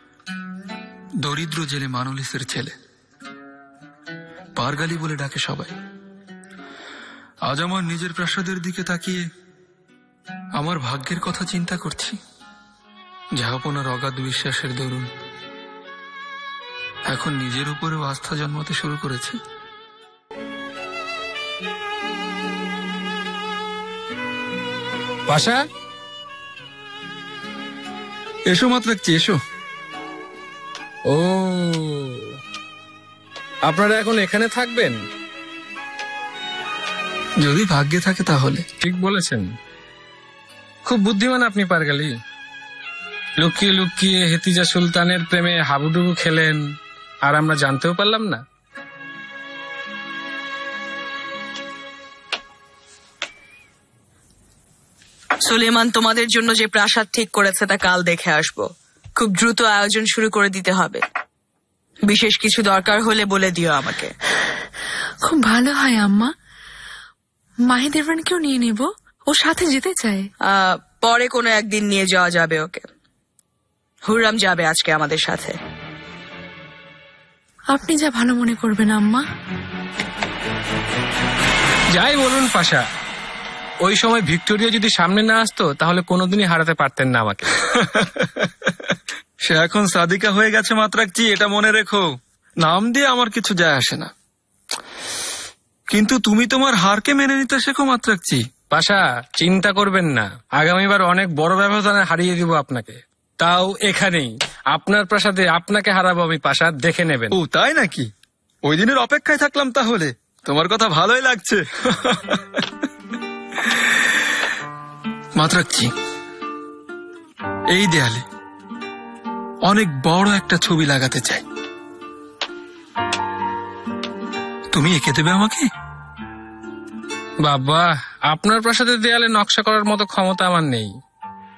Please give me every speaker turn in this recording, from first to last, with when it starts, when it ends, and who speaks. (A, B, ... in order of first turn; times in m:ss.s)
0:01.2-0:02.7 A
0:04.6-0:05.7 A
0:07.5-0:09.2 A
0:10.6-0:12.2 A
0:13.4-0:15.1 A
0:17.1-0:19.4 A
0:25.3-0:25.6 B
0:28.5-0:29.4 A
0:31.1-0:32.2 B
0:33.6-0:35.0 B
0:37.4-0:38.6 A
0:38.8-0:39.5 B
0:40.8-0:42.1 B
0:43.4-0:46.6 B
0:47.2-0:48.4 B
0:55.5-0:58.7 C
0:59.2-1:01.0 C
1:02.1-1:04.1 C
1:05.2-1:06.3 D
1:07.7-1:10.2 D
1:10.5-1:12.8 C
1:14.1-1:15.6 C
1:17.7-1:19.2 D
1:21.9-1:22.8 B
1:23.8-1:27.5 B
1:29.4-1:32.0 A
1:32.6-1:34.1 A
1:35.9-1:38.4 A
1:38.7-1:47.3 B
1:47.3-1:48.1 A
1:48.6-1:52.4 A
1:53.6-1:54.0 A
1:55.4-1:55.9 A
1:57.7-1:58.2 A
1:59.7-2:01.4 A
2:04.7-2:05.6 A
2:07.4-2:10.9 B